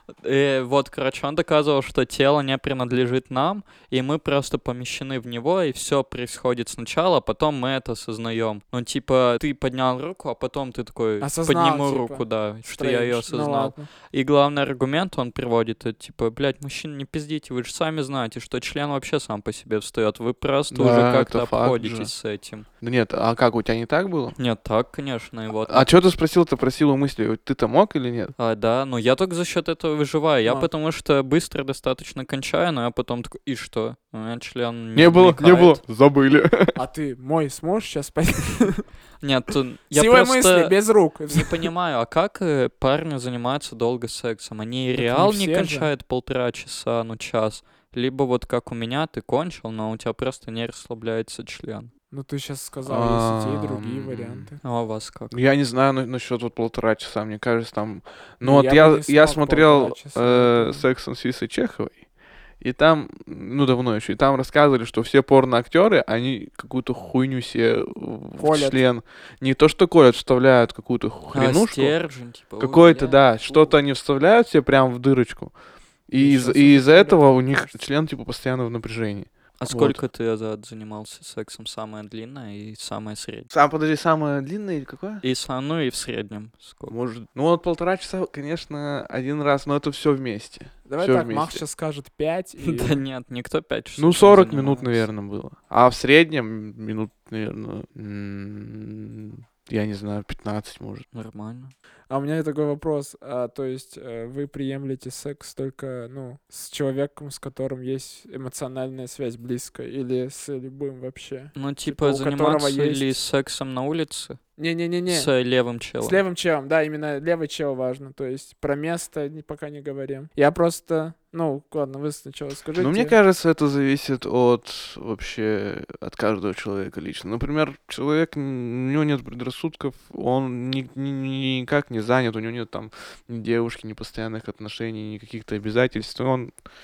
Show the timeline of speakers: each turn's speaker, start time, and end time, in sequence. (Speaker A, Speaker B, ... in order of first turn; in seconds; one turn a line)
Speaker A: 0.2-22.7
Speaker B: 11.2-13.9
Speaker C: 20.7-22.1
Speaker C: 22.8-24.3
Speaker A: 24.4-25.9
Speaker C: 25.6-28.3
Speaker A: 28.4-35.8
Speaker C: 34.9-36.8
Speaker B: 36.8-38.8
Speaker A: 39.2-40.8
Speaker B: 39.9-41.7
Speaker A: 41.3-51.9
Speaker B: 44.9-45.9
Speaker B: 52.1-54.6
Speaker C: 52.9-54.5
Speaker A: 54.6-55.4
Speaker C: 55.3-62.0
Speaker B: 58.4-60.8
Speaker C: 62.6-71.9
Speaker B: 68.4-68.8
Speaker A: 71.3-73.7
Speaker C: 72.6-75.5
Speaker C: 76.1-80.0
Speaker B: 76.2-77.7
Speaker A: 79.6-83.5
Speaker C: 83.5-85.2
Speaker A: 85.2-86.9
Speaker C: 86.9-91.6
Speaker B: 90.8-93.0
Speaker A: 92.6-95.0
Speaker C: 94.0-101.0
Speaker A: 101.1-101.7
Speaker B: 102.1-113.1
Speaker A: 111.5-114.4
Speaker B: 114.6-115.3
Speaker A: 115.1-116.2
Speaker B: 116.0-123.1
Speaker C: 122.8-136.5